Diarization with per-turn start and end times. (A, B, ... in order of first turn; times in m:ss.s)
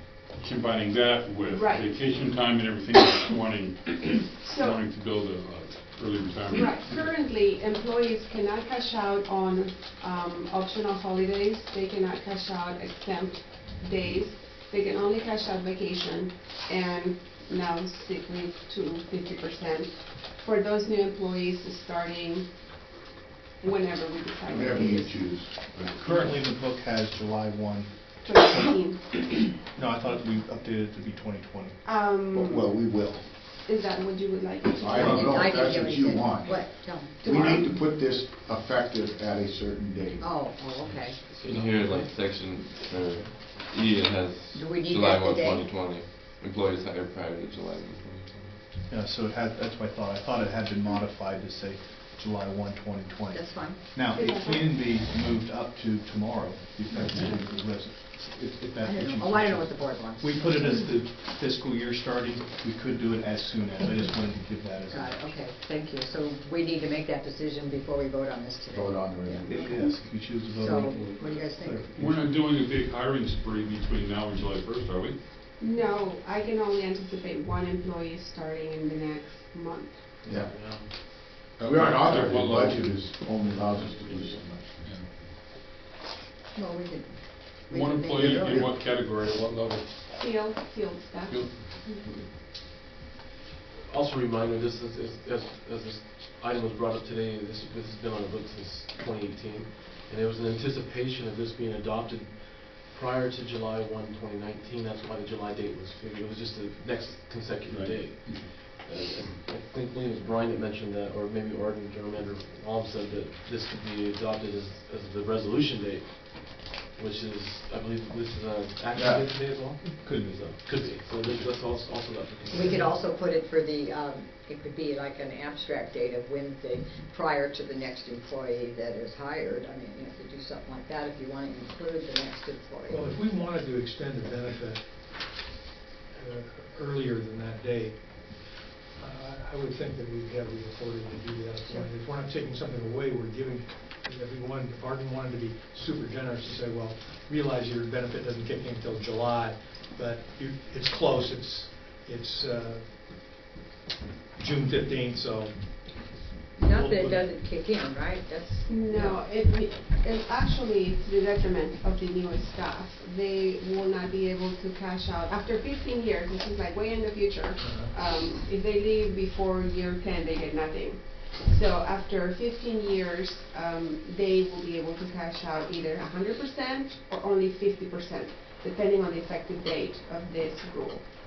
0:00.4-0:07.1 A
0:01.5-0:01.9 B
0:04.4-0:04.8 B
0:06.5-0:22.5 B
0:23.6-0:25.1 B
0:24.4-0:25.5 C
0:25.8-0:27.9 D
0:28.2-0:29.0 B
0:29.7-0:33.2 D
0:31.8-0:32.6 B
0:32.3-0:33.1 C
0:33.6-0:35.9 B
0:34.7-0:36.7 C
0:35.0-0:37.2 E
0:37.2-0:37.7 B
0:37.2-0:40.2 C
0:40.2-0:41.2 E
0:41.3-0:42.1 F
0:41.3-0:48.6 G
0:44.5-0:45.7 E
0:48.9-1:05.1 D
0:53.3-0:53.8 E
0:54.1-0:54.7 B
0:58.8-1:00.5 E
1:04.9-1:09.5 E
1:08.7-1:09.8 C
1:09.4-1:12.0 D
1:10.4-1:12.1 E
1:11.9-1:15.2 A
1:15.6-1:20.0 B
1:20.2-1:20.9 F
1:21.6-1:24.8 C
1:21.7-1:25.1 A
1:26.5-1:28.5 E
1:27.7-1:29.9 A
1:28.4-1:28.7 C
1:30.1-1:32.0 B
1:31.3-1:32.1 A
1:33.9-2:02.9 F
1:47.7-1:48.5 A
1:58.9-1:59.2 C
1:59.0-1:59.8 H
2:00.0-2:00.6 D
2:02.5-2:13.1 E
2:12.8-2:15.3 H
2:16.1-2:32.9 H
2:34.4-2:36.0 H
2:36.6-2:39.4 E
2:36.6-2:37.3 H
2:38.7-3:01.1 B
2:47.6-2:47.9 H